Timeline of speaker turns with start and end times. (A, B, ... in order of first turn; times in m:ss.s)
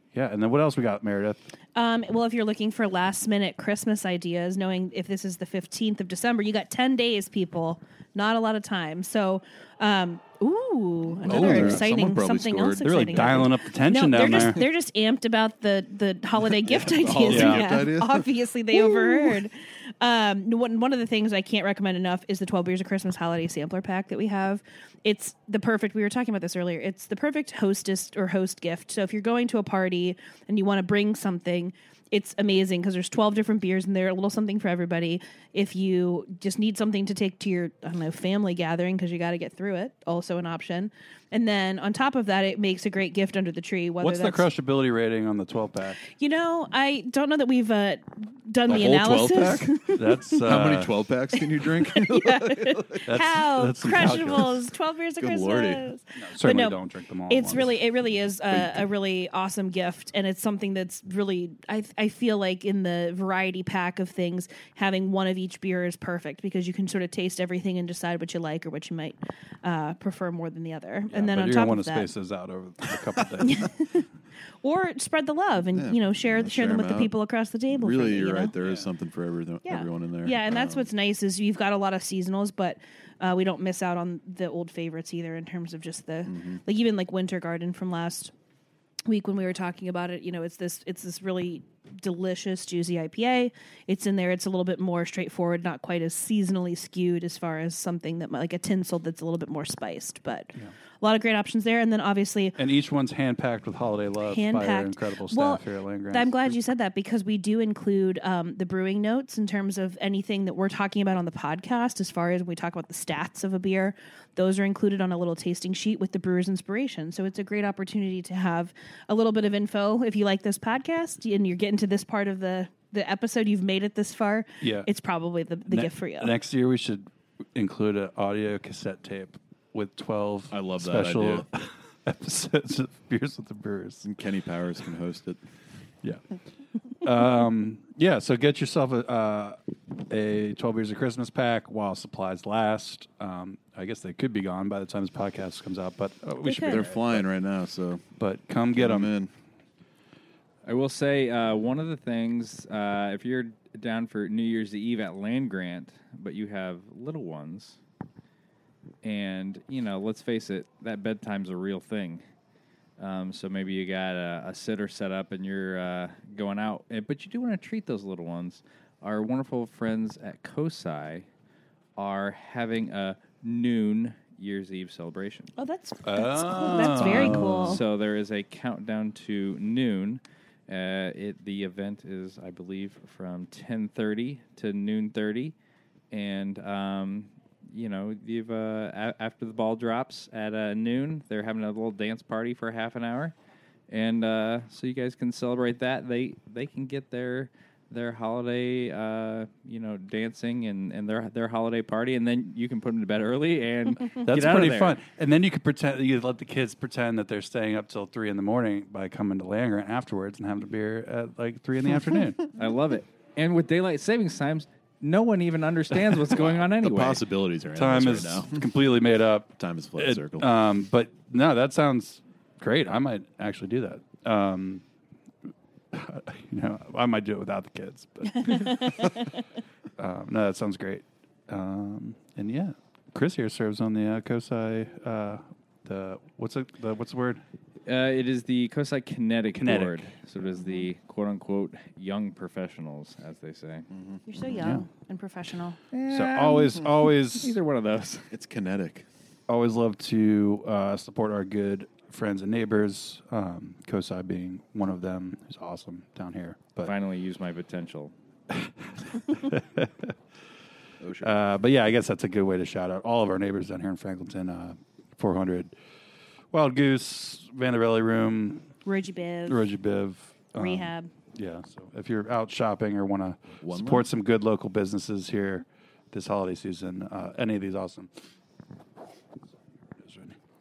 0:00.1-0:01.4 A
0:01.7-0:44.5 B
0:11.2-0:13.5 C
0:11.2-0:11.9 A
0:12.8-0:14.6 A
0:16.5-0:19.2 C
0:17.2-0:17.8 A
0:44.0-0:46.0 A
0:46.1-0:50.4 B
0:48.7-0:49.9 C
0:50.0-0:50.9 A
0:50.4-0:53.0 C
0:51.8-1:12.1 B
0:53.0-0:54.6 A
0:53.9-0:54.5 C
0:55.2-0:55.9 C
0:56.1-0:57.8 A
0:58.5-0:58.8 C
1:11.1-1:13.7 A
1:13.4-1:14.0 B
1:14.6-1:18.5 B
1:15.7-1:17.1 C
1:17.7-1:20.9 C
1:19.6-1:28.3 B
1:26.2-1:26.6 C
1:29.0-1:42.6 B
1:42.6-1:46.6 A
1:44.2-2:06.3 B
2:04.6-2:04.9 A
2:05.7-2:14.1 A
2:10.5-2:11.4 C
2:14.0-2:15.4 C
2:17.0-2:27.3 A
2:26.4-2:26.8 B
2:26.6-2:28.0 C
2:28.2-2:29.1 A
2:28.8-2:29.3 C
2:30.6-2:37.8 D
2:39.0-2:42.2 D
2:43.0-2:51.2 D
2:52.0-2:55.5 D
2:55.6-2:57.8 B
2:56.0-2:57.8 A
2:56.8-3:05.5 D
3:06.1-3:13.3 D
3:13.9-3:25.0 D
3:24.2-3:32.4 A
3:32.6-3:37.2 D
3:36.3-3:38.6 C
3:37.7-3:44.8 A
3:39.6-3:40.5 C
3:45.9-3:48.9 A
3:48.5-3:48.7 B
3:50.0-3:57.4 A
3:57.8-4:03.9 D
3:59.5-4:00.1 A
4:00.6-4:00.9 B
4:03.9-4:04.7 C
4:04.2-4:05.8 B
4:04.6-4:04.8 A
4:05.9-4:08.3 D
4:06.1-4:07.6 A
4:08.3-4:09.1 C
4:09.5-4:16.9 A
4:16.8-4:18.1 D
4:18.5-4:20.1 A
4:21.0-4:21.4 C
4:21.2-4:25.7 A
4:26.5-4:28.7 A
4:28.8-4:29.6 B
4:29.5-4:38.1 A
4:30.6-4:31.1 B
4:33.6-4:34.1 C
4:40.0-4:40.4 A